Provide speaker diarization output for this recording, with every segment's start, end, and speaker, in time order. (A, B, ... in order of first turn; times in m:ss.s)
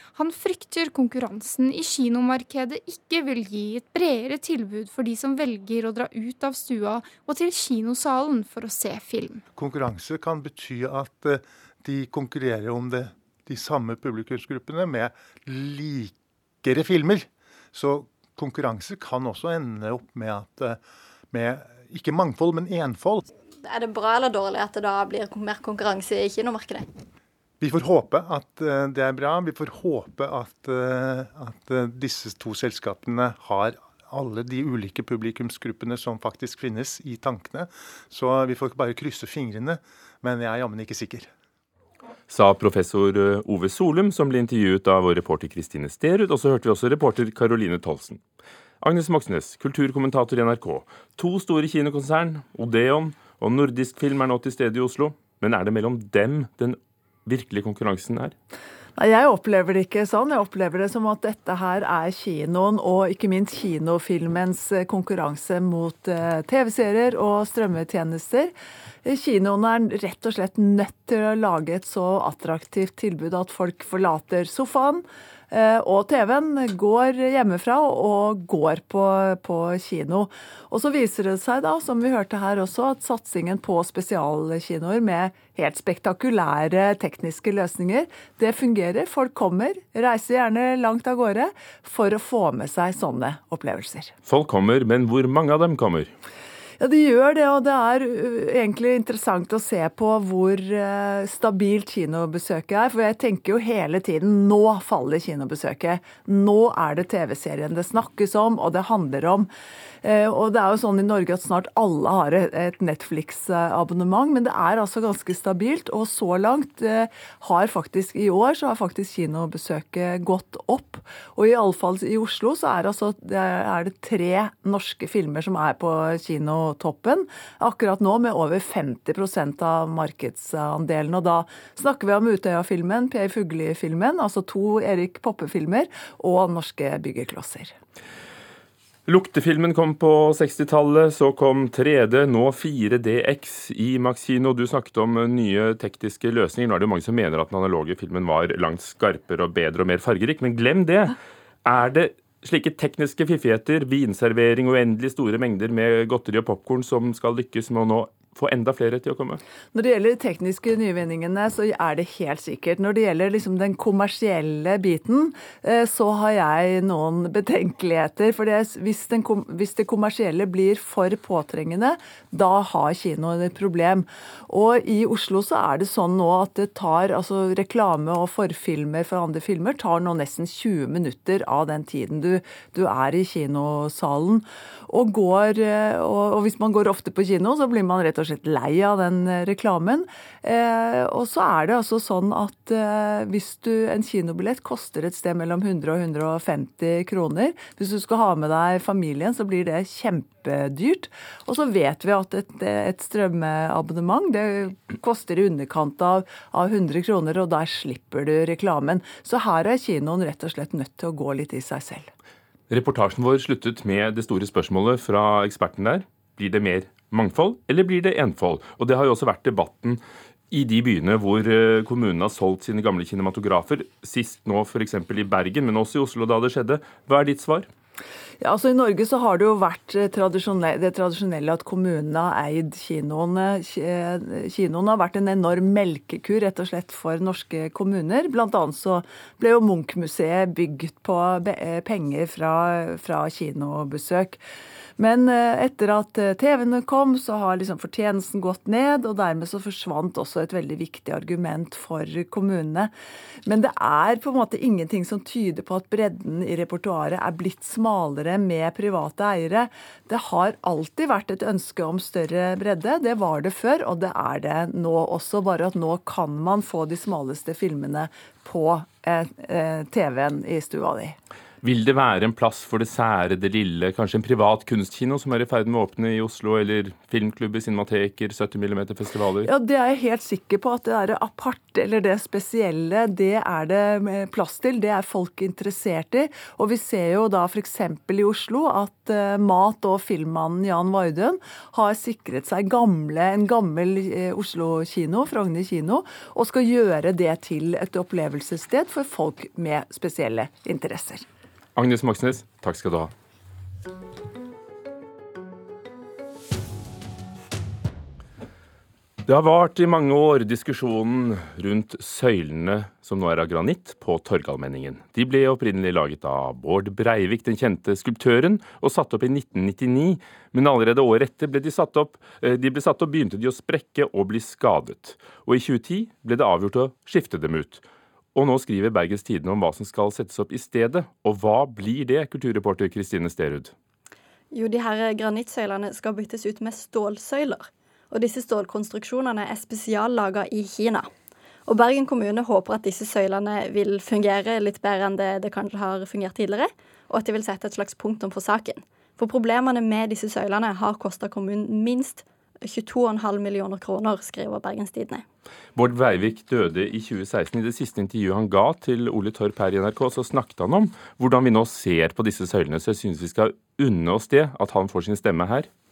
0:00.2-0:09.4 A
0:09.6-0:20.8 B
0:21.3-0:23.2 B
0:23.6-0:26.9 C
0:27.6-0:41.3 B
0:42.3-0:48.2 D
0:48.8-0:58.3 D
0:59.0-1:08.5 E
1:09.0-1:34.1 E
1:34.3-1:36.1 D
1:36.8-1:49.5 E
1:50.0-2:17.7 E
2:19.1-2:39.4 D
2:39.7-3:32.1 E
3:32.7-3:47.7 D
3:48.4-4:04.4 E
4:05.0-4:12.9 E
4:13.5-4:31.2 E
4:31.6-4:39.5 D
4:39.4-5:01.2 E
5:01.8-5:03.1 D
5:09.2-5:27.8 D
5:28.4-5:33.7 D
5:34.5-5:41.1 C
5:41.7-5:55.2 C
5:55.8-6:05.7 D